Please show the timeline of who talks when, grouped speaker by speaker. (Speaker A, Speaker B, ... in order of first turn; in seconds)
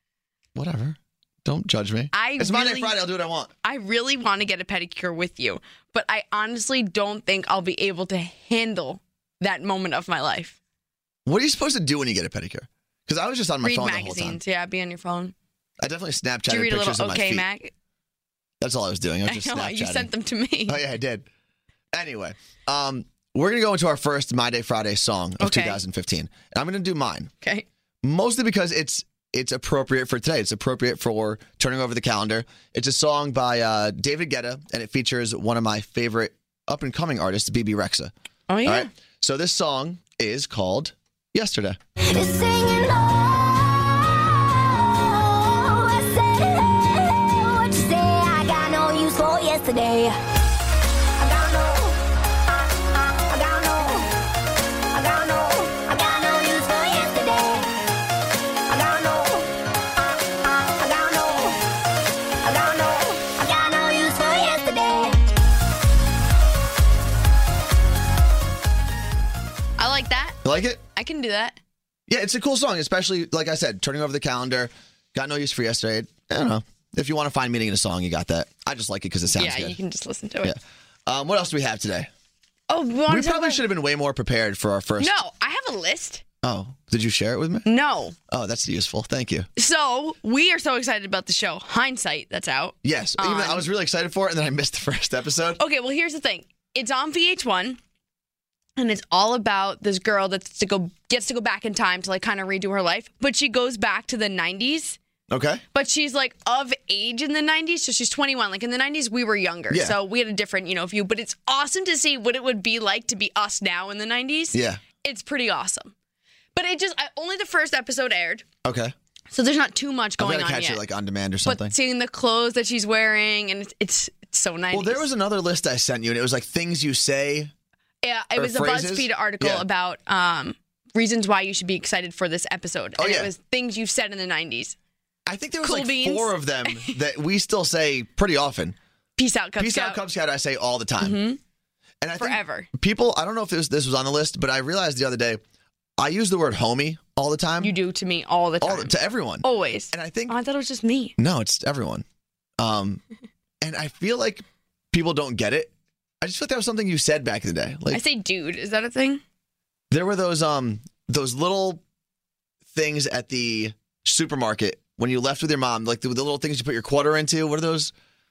Speaker A: 0.5-3.5, 11.2-14.4, 15.8-17.4, 18.6-20.1, 20.7-21.2, 21.9-27.3, 28.0-38.1, 38.6-41.8, 70.4-70.8, 72.1-79.8, 80.4-82.1, 83.1-85.2, 86.4-87.7, 88.3-89.5, 92.8-95.6, 105.3-105.6, 109.7-110.0, 114.5-114.8, 118.6-118.9, 120.2-121.7, 124.7-127.5, 128.3-129.6, 133.0-133.3, 135.2-138.8, 139.6-141.2, 142.0-145.4, 146.0-147.8, 148.6-150.3, 151.2-152.0, 152.6-153.0, 153.6-158.0, 159.9-161.8, 162.7-167.9
Speaker B: 2.1-3.0, 3.6-10.6, 13.6-15.3, 16.5-17.7, 19.2-20.8, 25.4-25.8, 38.5-38.9, 69.8-70.4, 70.9-71.6, 79.3-80.5, 82.7-83.6, 85.0-86.2, 87.7-88.2, 89.5-93.7, 95.6-97.8, 98.8-105.0, 105.7-115.9, 116.5-118.4, 119.3-120.8, 121.4-125.1, 128.0-134.8, 135.6-136.9, 139.2-140.0, 141.0-141.4, 142.2-142.7, 147.6-151.2, 157.9-159.2
Speaker C: 42.0-50.2, 51.2-52.0, 53.0-54.1, 54.9-57.8, 58.7-59.5, 60.5-61.6, 62.4-65.2